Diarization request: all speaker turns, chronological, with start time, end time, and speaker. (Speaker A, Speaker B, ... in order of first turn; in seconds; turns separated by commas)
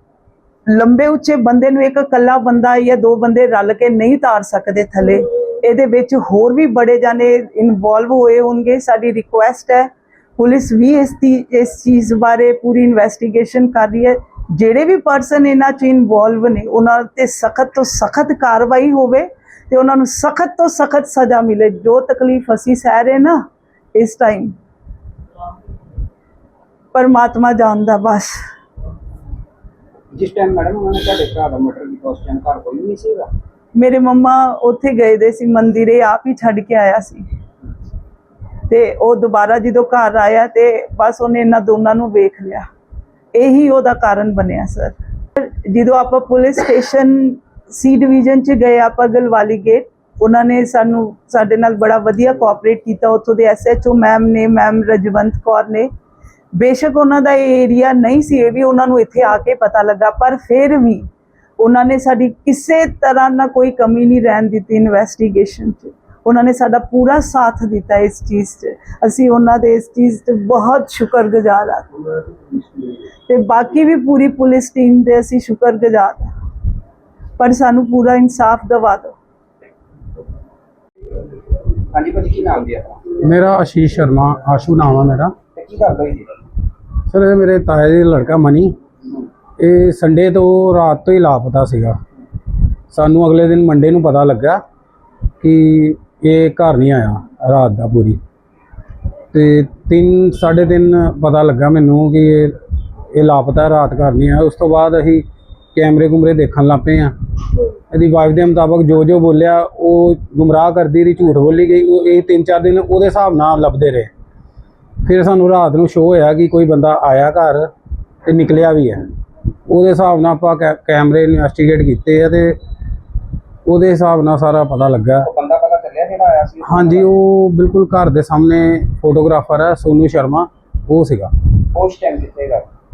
Speaker A: 0.7-23.4, Speaker A: 23.9-24.5, Speaker A: 26.9-28.3, Speaker B: 30.1-33.3, Speaker A: 33.8-37.2, Speaker A: 38.7-42.7, Speaker A: 43.3-55.9, Speaker A: 56.6-61.1, Speaker A: 61.6-71.9, Speaker A: 73.3-76.3, Speaker A: 77.4-79.1, Speaker B: 81.9-83.0, Speaker C: 83.2-85.3, Speaker B: 85.5-86.3, Speaker C: 87.1-88.8, Speaker C: 89.6-92.0, Speaker C: 92.9-94.6, Speaker C: 95.4-98.2, Speaker C: 99.3-102.5, Speaker C: 103.1-107.1, Speaker C: 107.9-114.1, Speaker C: 115.0-117.7, Speaker C: 118.3-119.0, Speaker C: 119.7-122.6, Speaker C: 123.7-125.3, Speaker B: 125.2-127.1, Speaker C: 126.6-131.3, Speaker B: 131.7-132.7